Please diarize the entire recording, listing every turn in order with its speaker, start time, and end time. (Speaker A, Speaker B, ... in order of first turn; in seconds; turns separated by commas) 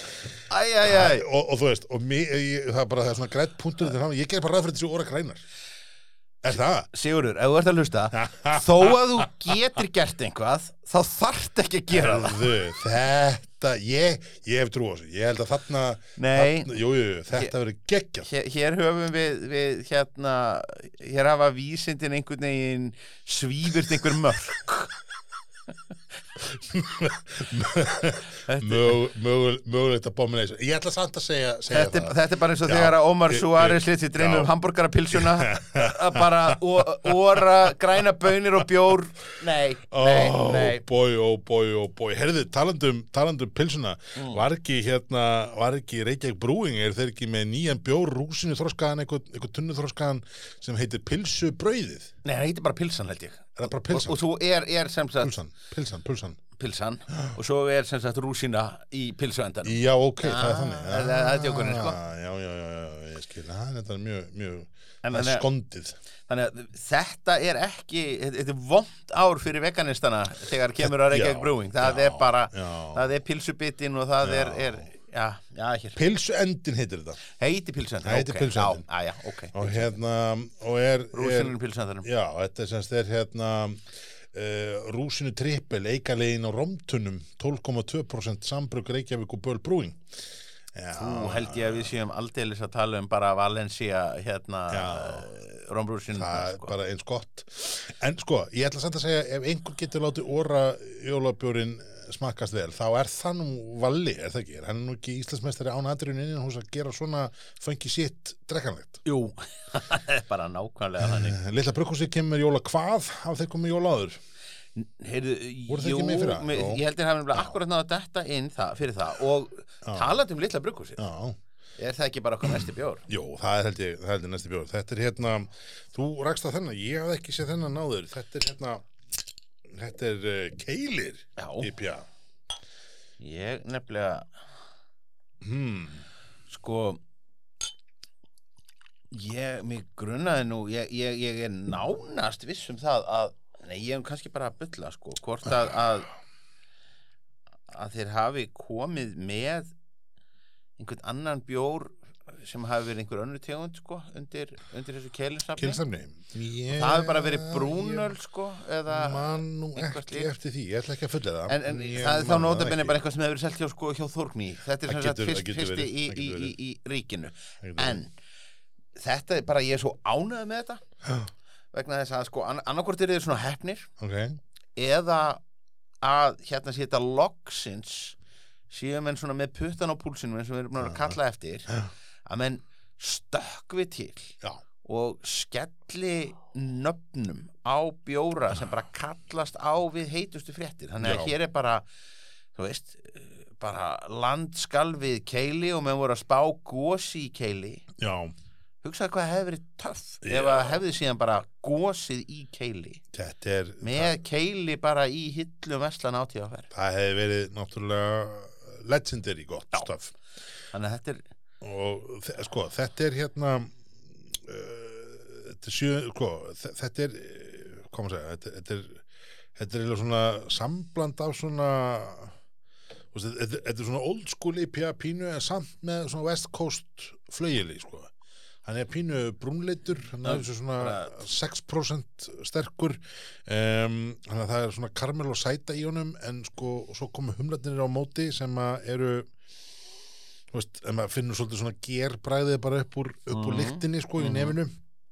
Speaker A: 0.5-1.3, Speaker B: 0.8-5.4, Speaker B: 6.4-6.9, Speaker A: 6.9-12.5, Speaker B: 8.1-9.5, Speaker B: 11.9-18.3, Speaker A: 16.2-16.7, Speaker A: 18.3-24.9, Speaker B: 26.4-34.5, Speaker A: 28.4-29.0, Speaker A: 31.7-40.8, Speaker B: 35.1-37.7, Speaker B: 39.9-52.1, Speaker A: 44.2-44.4, Speaker A: 52.2-55.4, Speaker B: 53.6-54.2, Speaker B: 55.2-56.4, Speaker A: 56.6-62.0, Speaker B: 59.6-66.0, Speaker A: 65.0-65.5, Speaker A: 66.3-76.0, Speaker B: 70.8-73.0, Speaker B: 74.2-74.8, Speaker B: 76.0-77.2, Speaker A: 77.3-80.0, Speaker B: 78.0-78.8, Speaker B: 79.5-90.0, Speaker A: 81.1-82.1, Speaker B: 90.7-91.9, Speaker A: 91.0-96.7, Speaker B: 94.7-95.3, Speaker B: 96.1-109.0, Speaker A: 109.1-111.4, Speaker B: 111.0-114.2, Speaker A: 114.8-121.0, Speaker B: 115.7-116.8, Speaker B: 119.8-120.2, Speaker B: 121.0-121.4, Speaker A: 121.8-123.0, Speaker B: 122.6-128.9, Speaker B: 129.7-132.1, Speaker A: 131.4-131.7, Speaker A: 133.2-134.3, Speaker B: 135.4-136.1, Speaker A: 136.5-137.0, Speaker A: 139.1-146.1, Speaker A: 147.7-149.7, Speaker A: 150.8-155.8, Speaker B: 155.6-158.2, Speaker A: 156.7-160.3, Speaker B: 158.9-163.0, Speaker A: 161.5-168.1, Speaker B: 164.9-166.6, Speaker B: 167.6-168.0, Speaker A: 169.0-170.8, Speaker B: 171.0-171.3, Speaker A: 171.7-173.9, Speaker B: 174.0-174.4, Speaker A: 174.8-175.4, Speaker A: 176.0-178.2, Speaker A: 178.7-191.8, Speaker B: 180.8-181.2, Speaker B: 191.0-191.3, Speaker A: 192.6-197.8, Speaker B: 198.0-198.3, Speaker A: 198.8-203.0, Speaker B: 200.2-200.8, Speaker B: 203.1-204.2, Speaker A: 203.8-206.7, Speaker B: 206.7-210.2, Speaker A: 210.7-211.2, Speaker B: 211.6-219.0, Speaker B: 219.6-222.3, Speaker B: 223.1-228.1, Speaker B: 228.7-239.3, Speaker A: 230.2-231.2, Speaker B: 240.5-244.7, Speaker A: 243.3-244.6